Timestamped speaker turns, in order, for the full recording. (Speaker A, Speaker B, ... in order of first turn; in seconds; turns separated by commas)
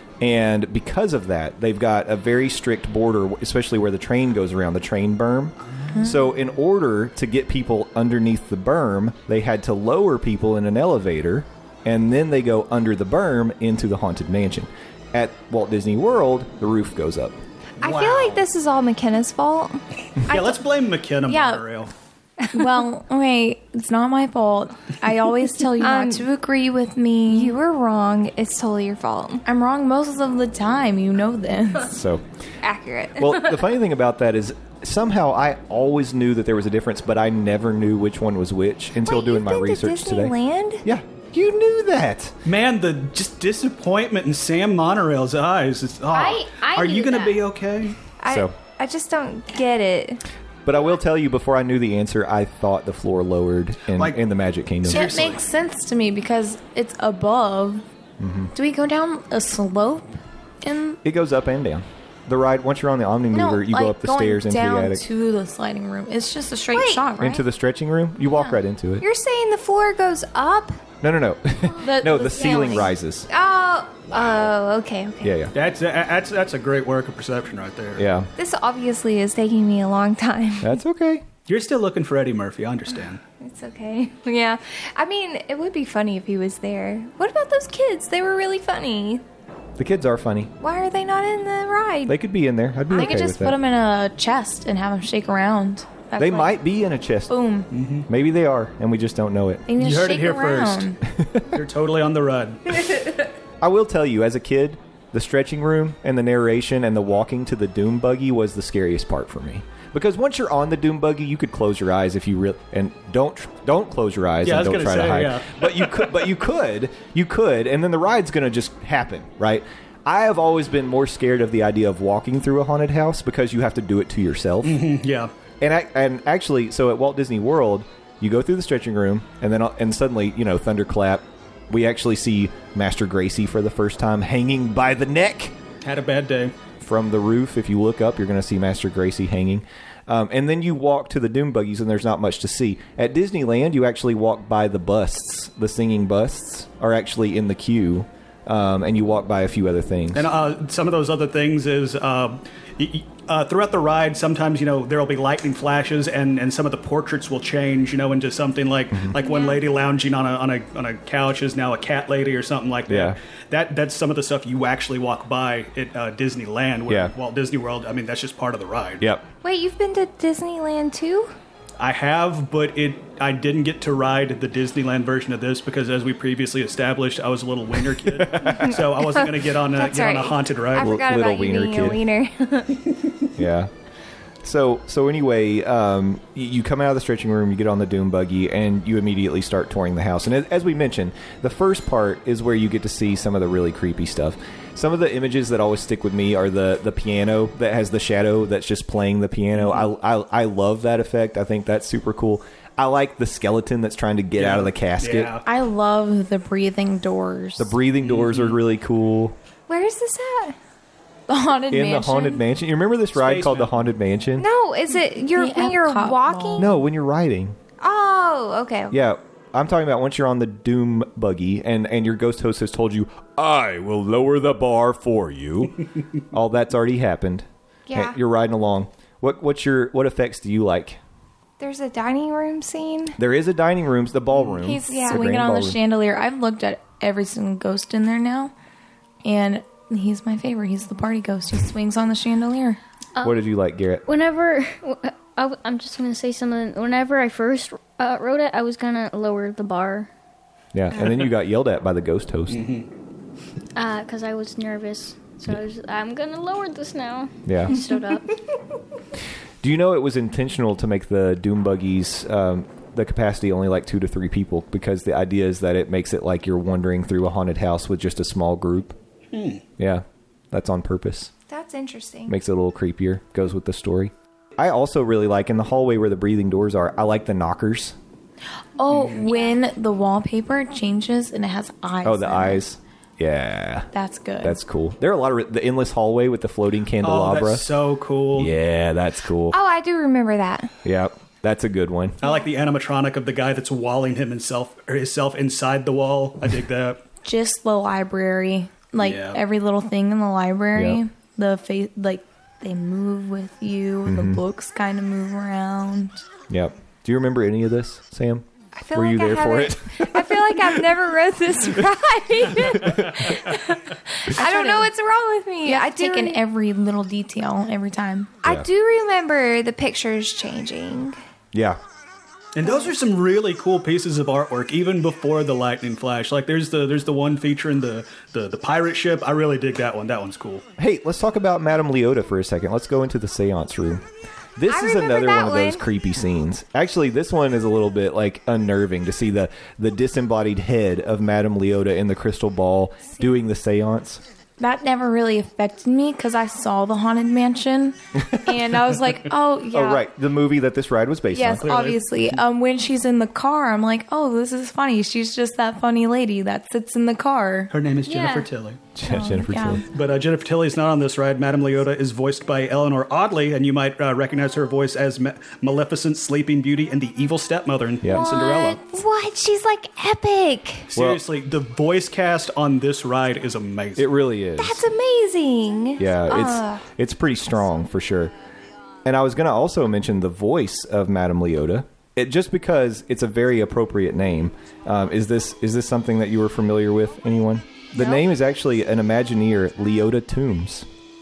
Speaker A: 0.2-17.4, Speaker B: 5.9-6.2, Speaker C: 17.8-18.5, Speaker D: 17.8-19.8, Speaker C: 20.3-21.9, Speaker B: 21.3-21.6, Speaker B: 22.5-27.6, Speaker D: 25.8-26.3, Speaker D: 27.3-29.4, Speaker B: 29.4-32.0, Speaker A: 31.9-32.2, Speaker D: 32.6-33.6, Speaker A: 33.2-42.4, Speaker D: 39.0-40.8, Speaker C: 42.5-48.0, Speaker E: 46.1-47.4, Speaker D: 48.2-50.2, Speaker A: 48.3-48.5, Speaker A: 50.7-55.1, Speaker C: 54.0-54.2, Speaker C: 54.8-55.4, Speaker B: 54.9-57.8, Speaker A: 58.2-58.5, Speaker B: 58.5-61.0, Speaker A: 61.0-65.0, Speaker B: 63.3-67.5, Speaker D: 66.7-67.1, Speaker A: 67.2-69.0, Speaker D: 69.0-70.8, Speaker A: 71.0-73.3, Speaker B: 71.8-72.9, Speaker D: 73.3-75.4, Speaker A: 75.2-75.5, Speaker C: 75.5-78.1, Speaker A: 78.0-78.3, Speaker D: 78.4-80.7, Speaker A: 80.6-81.2, Speaker C: 81.5-83.2, Speaker D: 83.4-89.2, Speaker A: 89.8-90.5, Speaker D: 90.6-92.2, Speaker A: 92.1-93.6, Speaker D: 92.9-93.2, Speaker B: 93.0-96.6, Speaker A: 96.2-97.3, Speaker B: 97.3-97.7, Speaker C: 97.7-98.1, Speaker A: 98.1-99.7, Speaker B: 99.7-101.0, Speaker C: 99.8-100.9, Speaker A: 101.2-101.5, Speaker C: 101.5-103.0, Speaker A: 103.6-124.8, Speaker C: 114.4-116.3, Speaker C: 124.6-125.3, Speaker A: 125.6-135.6, Speaker C: 135.8-136.5, Speaker A: 136.8-150.3, Speaker C: 150.1-169.1, Speaker A: 158.9-159.2, Speaker D: 159.2-159.6, Speaker A: 162.9-163.2, Speaker A: 166.9-167.1, Speaker A: 169.0-169.3, Speaker D: 169.4-171.3, Speaker C: 171.8-180.9, Speaker A: 178.1-178.8, Speaker D: 178.6-182.9, Speaker A: 180.8-182.0, Speaker A: 183.4-183.7, Speaker A: 184.4-205.3, Speaker C: 199.6-199.8, Speaker C: 204.4-205.4, Speaker B: 205.4-207.7, Speaker A: 207.6-209.4, Speaker C: 208.0-208.6, Speaker D: 209.7-210.6, Speaker B: 211.3-212.4, Speaker A: 211.7-214.5, Speaker C: 213.1-213.7, Speaker D: 214.4-216.7, Speaker B: 215.3-216.8, Speaker A: 216.6-217.6, Speaker D: 217.8-219.0, Speaker A: 218.9-225.8, Speaker A: 226.3-231.0, Speaker D: 227.9-228.2, Speaker D: 231.6-233.2, Speaker A: 233.2-235.8, Speaker B: 234.6-238.5, Speaker D: 234.9-235.2, Speaker B: 239.2-242.8, Speaker E: 243.2-243.4, Speaker A: 243.2-244.1, Speaker E: 244.1-250.1, Speaker A: 250.7-252.7, Speaker C: 252.5-252.9, Speaker E: 253.8-258.4, Speaker A: 257.5-257.8, Speaker A: 259.6-269.0, Speaker C: 269.3-269.6, Speaker A: 269.8-271.3, Speaker D: 271.5-272.4, Speaker A: 272.3-278.0, Speaker B: 278.8-282.6, Speaker C: 278.9-279.2, Speaker D: 279.2-279.6, Speaker A: 282.0-283.9, Speaker B: 283.9-284.6, Speaker A: 284.4-287.7, Speaker C: 287.0-288.5, Speaker A: 288.4-289.6, Speaker D: 289.5-290.7, Speaker A: 290.8-292.2, Speaker C: 292.2-297.0, Speaker B: 297.2-306.2, Speaker C: 299.0-299.4, Speaker A: 300.8-301.0, Speaker A: 304.1-304.4, Speaker A: 306.5-310.8, Speaker D: 308.8-316.4, Speaker A: 312.7-313.3, Speaker B: 314.4-314.9, Speaker B: 315.6-318.3, Speaker D: 318.4-321.2, Speaker A: 321.5-321.8, Speaker C: 322.6-330.6, Speaker A: 330.8-334.0, Speaker A: 334.6-344.2, Speaker D: 334.7-335.8, Speaker B: 344.6-350.1, Speaker A: 348.2-348.6, Speaker A: 349.7-351.7, Speaker B: 351.3-357.7, Speaker C: 351.6-352.3, Speaker C: 357.7-358.8, Speaker E: 358.1-358.5, Speaker A: 358.9-359.9, Speaker B: 359.1-359.8, Speaker C: 359.9-368.8, Speaker A: 368.0-368.3, Speaker D: 368.1-370.9, Speaker C: 370.9-374.1, Speaker A: 370.9-371.2, Speaker A: 374.0-374.9, Speaker D: 374.6-376.9, Speaker A: 376.0-378.3, Speaker A: 379.1-390.9